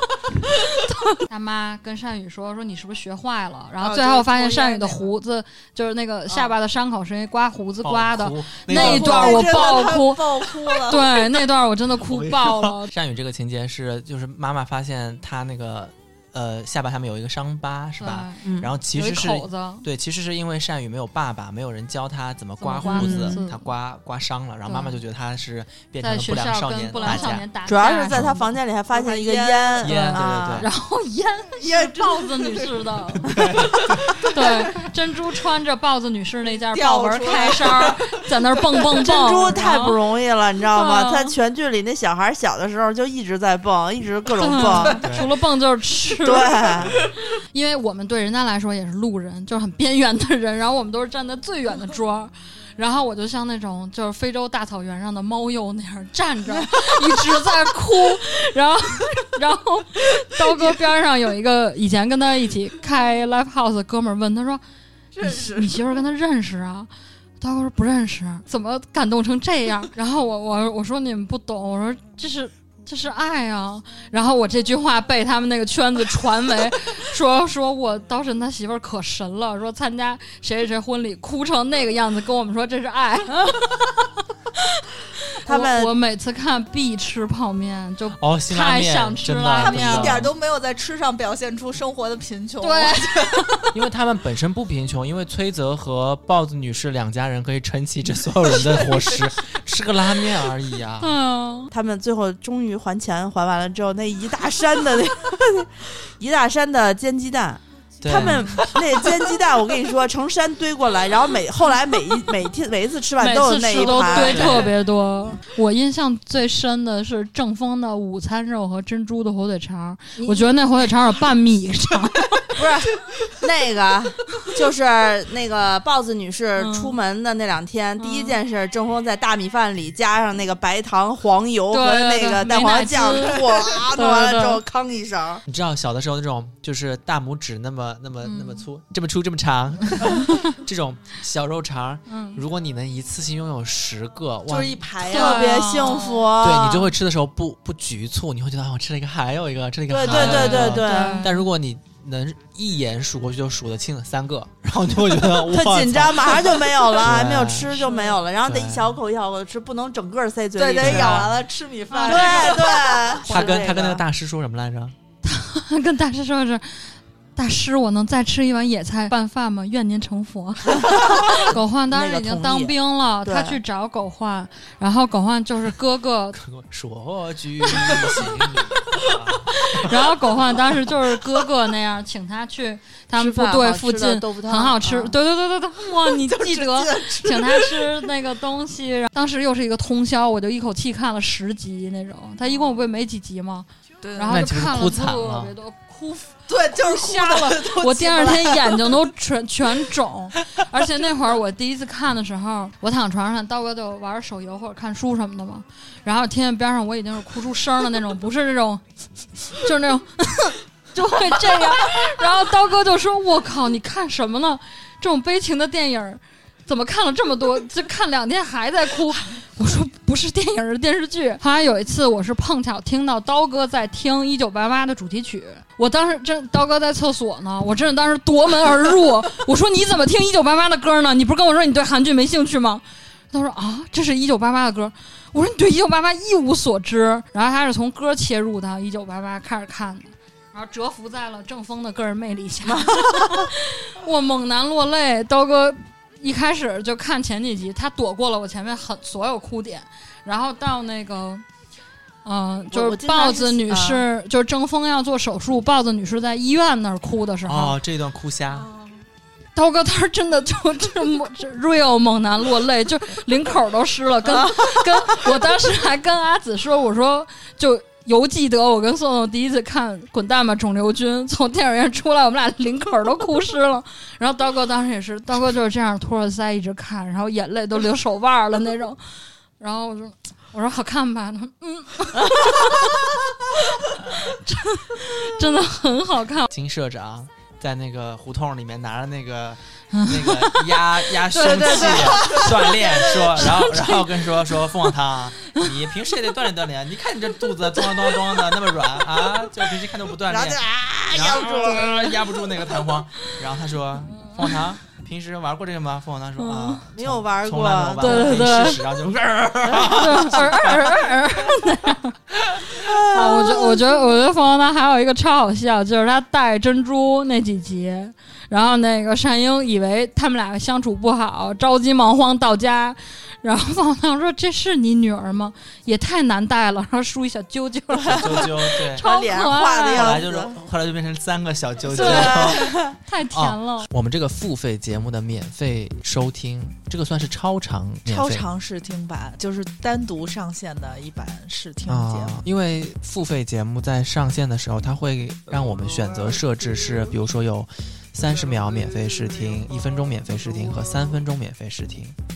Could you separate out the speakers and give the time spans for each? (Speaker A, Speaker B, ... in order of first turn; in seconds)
Speaker A: 0.5-12.9, 18.0-19.9, 22.6-23.7, 24.6-25.0, 26.0-28.4, 30.1-33.4, 34.2-40.0, 40.6-41.4, 44.4-64.6, 65.2-84.6, 85.5-90.2, 92.6-93.6, 101.0-101.7, 113.2-122.5, 126.6-127.0, 128.0-128.4, 131.7-134.6, 138.2-138.6, 142.1-142.4, 145.1-146.2, 150.1-151.4, 161.9-162.4, 165.2-176.4, 179.7-208.8, 209.5-251.4, 252.2-257.8, 259.5-279.0, 279.6-282.9, 283.5-286.5, 289.9-290.6, 291.3-294.1, 304.1-304.6, 306.4-306.8, 308.0-308.8, 309.7-312.2, 313.1-330.2, 331.8-333.9
Speaker B: 3.8-5.1, 8.7-11.2, 28.9-30.0, 31.6-32.8, 33.4-33.7, 36.4-38.1, 65.1-65.8, 89.5-93.5, 113.8-114.3, 144.5-146.1, 150.0-151.3, 157.8-158.2, 160.5-163.8, 186.0-188.1, 194.0-194.3, 196.5-199.0, 258.5-259.0, 338.1-342.4
Speaker C: 7.8-9.6, 12.0-27.4, 29.8-30.7, 33.2-34.3, 45.0-45.3, 88.2-90.3, 93.7-101.1, 108.0-108.8, 114.2-114.7, 135.5-145.0, 146.4-157.8, 158.4-158.9, 160.8-161.3, 162.1-162.4, 163.3-164.9, 176.3-180.3, 194.3-195.5, 257.4-258.7, 286.5-300.6, 301.1-310.6, 328.1-329.1, 329.9-332.7, 333.3-338.4, 341.9-352.1
Speaker D: 18.4-18.7, 22.9-23.4, 27.0-30.7, 39.0-45.0, 46.2-46.9, 85.4-85.9, 101.7-114.7, 120.2-120.5, 122.5-135.4, 145.0-146.9, 149.9-151.2, 155.4-161.3, 162.0-164.0, 171.9-173.6, 183.2-185.0, 242.7-243.5, 252.7-254.0, 300.3-302.0, 306.9-308.4, 312.8-314.0, 328.1-330.6, 331.9-332.9